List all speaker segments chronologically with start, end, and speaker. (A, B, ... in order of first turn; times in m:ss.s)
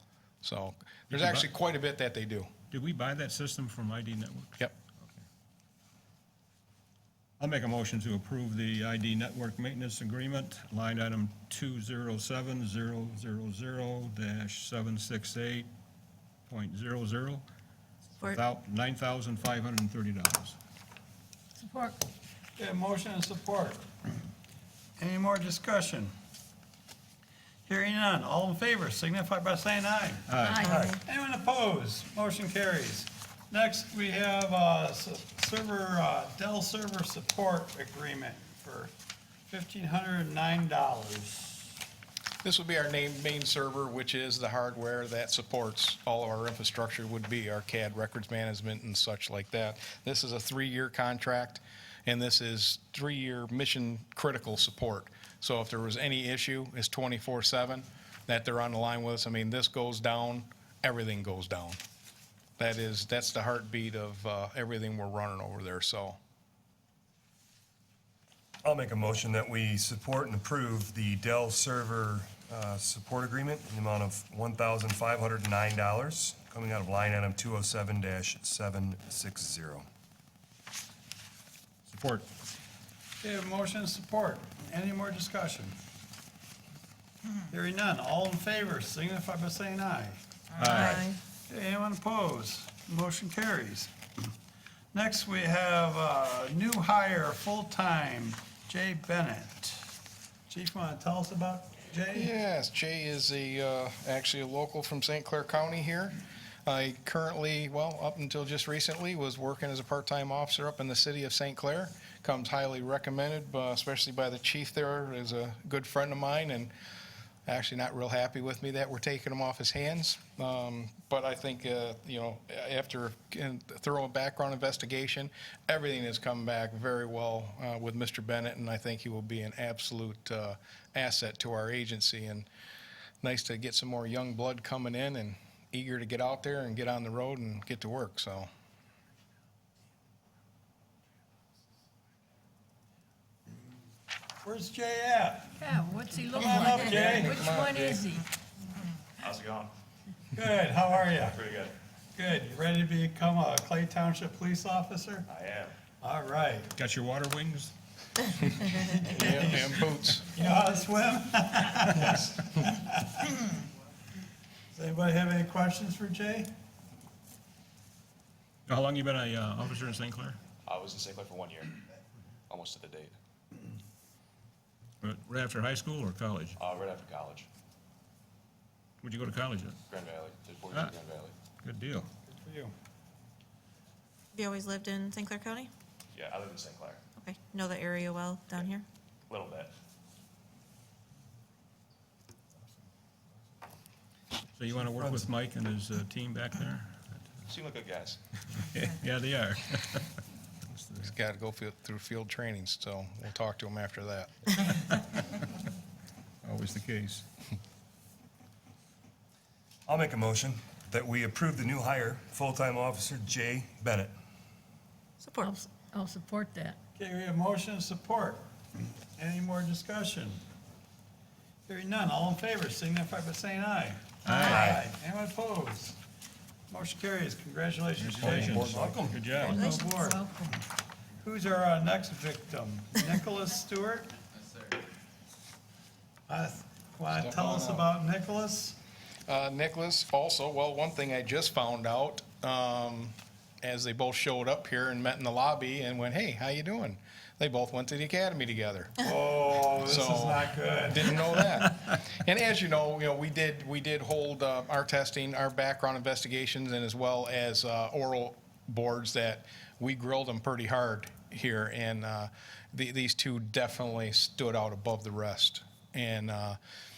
0:00.4-0:02.5 A
0:01.1-0:01.5 B
0:02.7-0:05.1 B
0:07.4-0:15.7 B
0:16.5-0:17.4 B
0:18.2-0:20.6 B
0:21.6-0:22.0 C
0:22.6-0:23.8 D
0:25.0-0:26.1 D
0:27.7-0:38.9 D
0:30.3-0:30.8 B
0:30.4-0:30.9 C
0:30.6-0:31.0 E
0:39.5-0:41.7 D
0:42.4-1:01.8 A
1:02.6-1:06.2 A
1:08.6-1:19.9 E
1:21.9-1:22.3 B
1:23.2-1:25.8 D
1:27.5-1:30.2 D
1:30.6-1:31.1 B
1:30.6-1:31.1 F
1:31.5-1:33.9 D
1:34.9-1:39.9 D
1:40.5-1:42.3 D
1:42.1-1:46.2 A
1:46.7-1:56.7 A
1:57.5-2:12.5 A
2:13.2-2:18.5 A
2:24.4-2:25.7 D
2:25.6-2:28.2 C
2:26.3-2:27.5 D
2:26.9-2:27.8 G
2:27.0-2:28.0 A
2:29.2-2:29.7 G
2:30.3-2:31.6 D
2:31.1-2:31.8 G
2:32.2-2:35.3 D
2:35.3-2:35.8 G
2:36.0-2:36.7 D
2:36.8-2:37.7 B
2:39.0-2:43.4 D
2:39.1-2:40.3 A
2:44.7-2:46.5 D
2:48.7-2:50.4 B
2:50.6-2:51.8 G
2:52.5-2:53.2 G
2:55.0-2:56.6 B
2:56.6-2:57.5 G
2:59.0-2:59.8 B
2:59.9-3:01.3 G
3:01.6-3:02.1 B
3:02.3-3:02.7 D
3:04.3-3:05.7 F
3:06.1-3:07.0 G
3:07.2-3:08.8 F
3:09.3-3:09.7 G
3:14.6-3:16.9 B
3:17.5-3:18.2 G
3:18.5-3:20.2 B
3:20.7-3:21.1 B
3:21.0-3:24.3 A
3:26.4-3:27.3 B
3:29.9-3:34.1 E
3:35.2-3:35.5 F
3:35.4-3:36.8 C
3:37.0-3:38.4 D
3:39.2-3:40.4 D
3:41.7-3:46.0 D
3:44.3-3:44.7 B
3:44.5-3:44.8 E
3:46.7-3:50.3 D
3:48.0-3:49.6 B
3:48.5-3:49.1 E
3:49.5-3:50.6 C
3:51.2-3:54.1 D
3:56.3-3:58.8 D
3:57.1-3:57.9 A
3:59.3-4:09.0 A
4:09.0-4:11.6 D
4:09.8-4:26.6 A